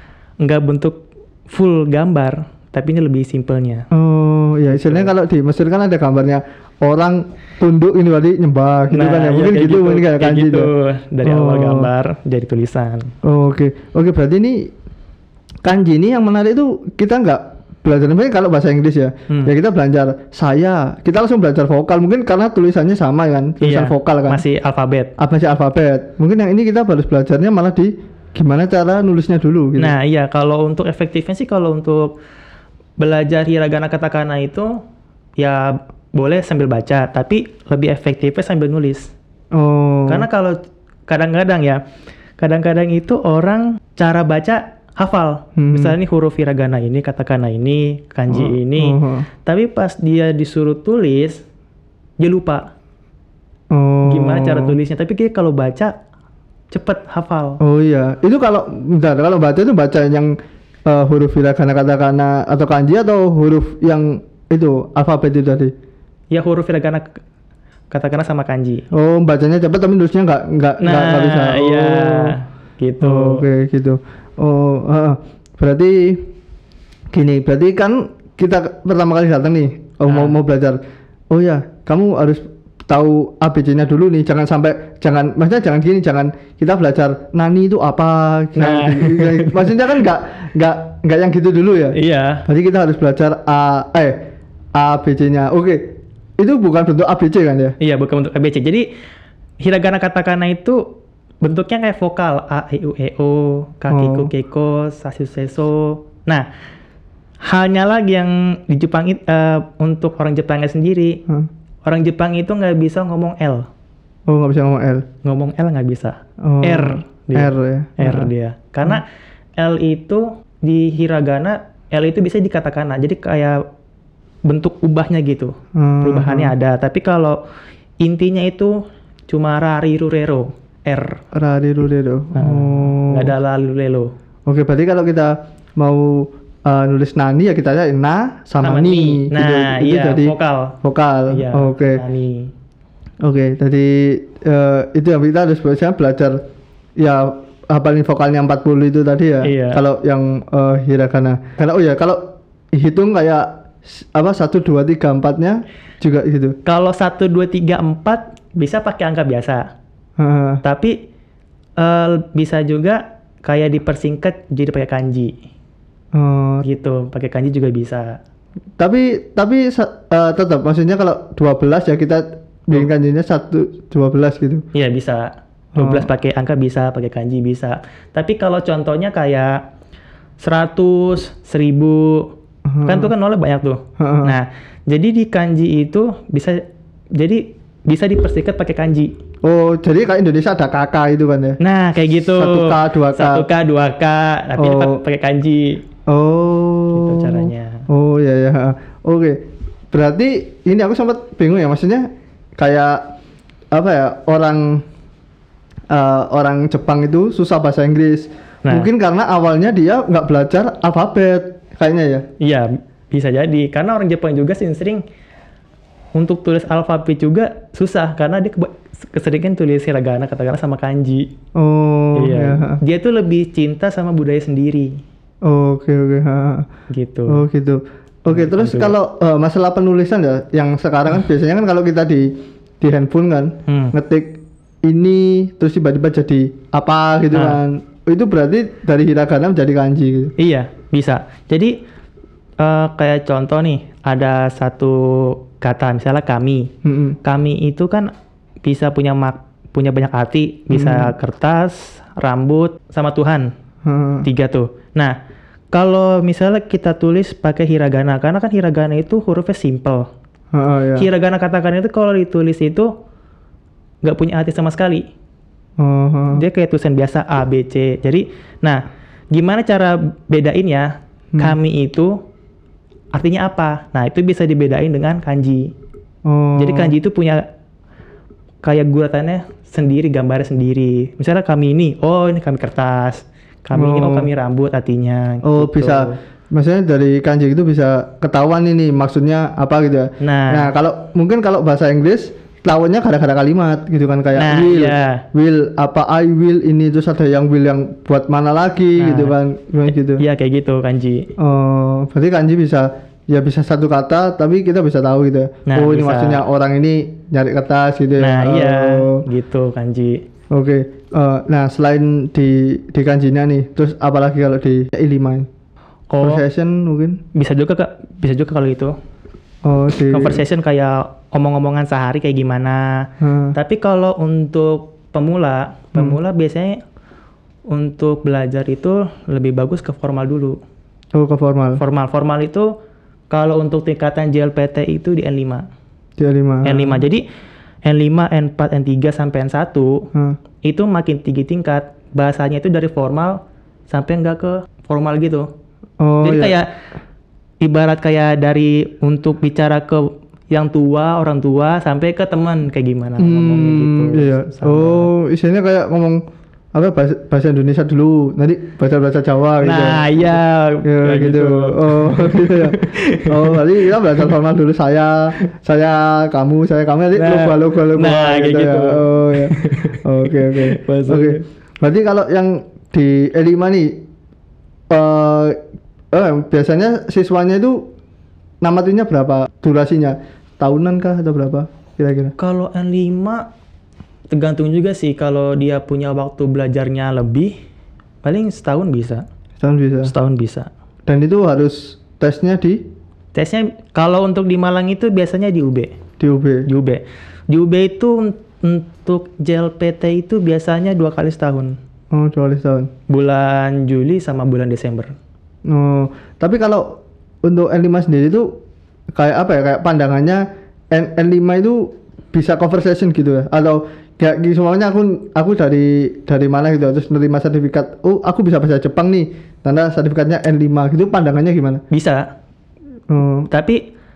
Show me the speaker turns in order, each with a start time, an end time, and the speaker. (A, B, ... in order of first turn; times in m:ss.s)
0:00.4-0:03.9 A
0:03.9-0:10.7 B
0:04.7-0:05.1 A
0:08.9-0:13.1 A
0:11.2-0:11.9 B
0:13.2-0:14.7 B
0:15.6-0:24.4 B
0:23.6-0:25.1 A
0:25.2-0:30.0 B
0:29.8-0:32.2 A
0:33.0-0:34.8 A
0:35.4-0:39.1 A
0:39.5-0:40.3 B
0:40.1-0:40.6 A
0:41.1-0:41.8 A
0:42.4-0:51.4 A
0:45.6-0:46.0 B
0:48.3-0:49.3 B
0:52.2-0:52.7 A
0:53.7-0:54.8 B
0:54.0-0:56.0 A
0:56.7-0:57.6 A
0:57.6-1:05.7 B
1:06.3-1:07.2 A
1:07.9-1:08.8 A
1:08.9-1:12.4 B
1:10.8-1:13.4 A
1:13.0-1:16.3 B
1:17.1-1:20.8 B
1:20.1-1:20.4 A
1:21.3-1:37.8 B
1:28.6-1:29.8 A
1:31.9-1:32.5 A
1:37.8-1:38.9 A
1:39.6-1:46.5 A
1:43.9-1:44.3 B
1:47.4-1:51.2 A
1:51.8-1:53.7 A
1:54.3-1:55.1 B
1:55.2-1:59.1 A
1:56.4-1:58.3 B
1:59.6-2:03.6 A
2:04.5-2:07.4 A
2:05.8-2:06.6 B
2:08.0-2:11.2 A
2:11.3-2:13.3 B
2:12.3-2:14.1 A
2:14.5-2:22.0 B
2:18.6-2:20.8 A
2:21.3-2:22.5 A
2:23.2-2:26.4 B
2:27.0-2:36.6 B
2:29.4-2:29.8 A
2:36.6-2:39.7 A
2:40.2-2:40.6 B
2:40.6-2:41.0 A
2:41.8-2:45.4 A
2:46.1-2:46.6 B
2:46.6-2:48.2 A
2:48.8-2:54.6 B
2:54.7-2:59.6 A
2:55.8-2:56.1 B
3:00.4-3:06.6 A
3:02.7-3:03.1 B
3:04.0-3:04.4 B
3:07.2-3:09.1 A
3:09.4-3:11.6 B
3:11.6-3:15.8 A
3:12.2-3:13.5 B
3:14.6-3:15.0 B
3:16.1-3:23.1 B
3:16.9-3:17.9 A
3:23.7-3:24.8 B
3:25.9-3:32.3 B
3:32.4-3:35.0 A
3:36.2-3:41.3 A
3:41.6-3:42.8 B
3:42.2-3:45.0 A
3:45.4-3:46.7 B
3:46.9-3:47.4 A
3:47.3-4:00.3 B
3:48.3-3:49.0 A
3:53.7-3:54.0 A
3:57.3-3:57.6 A
4:00.4-4:01.8 A
4:02.6-4:06.7 A
4:06.8-4:07.2 B
4:07.2-4:08.1 A
4:08.6-4:13.5 A
4:10.7-4:11.1 B
4:13.8-4:14.3 B
4:14.2-4:15.2 A
4:15.7-4:20.1 A
4:20.5-4:21.1 B
4:21.0-4:22.9 A
4:24.0-4:25.1 A
4:25.8-4:26.4 B
4:26.3-4:32.2 A
4:33.1-4:35.7 A
4:36.3-4:37.0 B
4:36.6-4:37.5 A
4:38.6-4:46.2 A
4:43.8-4:44.3 B
4:45.4-5:00.2 B
4:50.2-4:50.7 A
4:54.4-4:55.2 A
4:59.0-4:59.4 A
5:00.2-5:01.3 A
5:01.4-5:09.2 B
5:05.7-5:06.4 A
5:08.2-5:10.2 A
5:10.5-5:15.5 B
5:16.1-5:16.4 A
5:16.2-5:17.2 B
5:17.3-5:18.9 A
5:19.6-5:20.4 B
5:20.1-5:26.8 A
5:23.2-5:23.6 B
5:27.7-5:30.6 A
5:31.1-5:31.8 B
5:31.8-5:32.7 A
5:33.3-5:35.6 A
5:36.2-5:37.0 B
5:36.6-5:37.2 A
5:37.8-5:40.1 A
5:40.6-5:45.5 A
5:46.0-5:46.6 B
5:46.2-5:46.7 A
5:47.6-5:55.1 A
5:53.2-5:56.2 B
5:56.7-6:14.0 B
5:59.6-6:04.0 A
6:07.2-6:11.4 A
6:14.9-6:15.6 B
6:16.1-6:17.9 B
6:18.6-6:22.4 B
6:22.4-6:23.5 A
6:24.3-6:27.5 A
6:28.2-6:29.2 A
6:29.6-6:30.1 B
6:30.0-6:30.7 A
6:31.1-6:32.9 B
6:33.3-6:36.0 A
6:36.2-6:36.7 B
6:36.7-6:41.8 A
6:42.1-6:42.9 B
6:43.1-6:45.1 A
6:45.7-6:48.6 B
6:49.2-7:01.8 B
7:01.9-7:02.3 A
7:03.1-7:03.5 B
7:03.5-7:03.8 A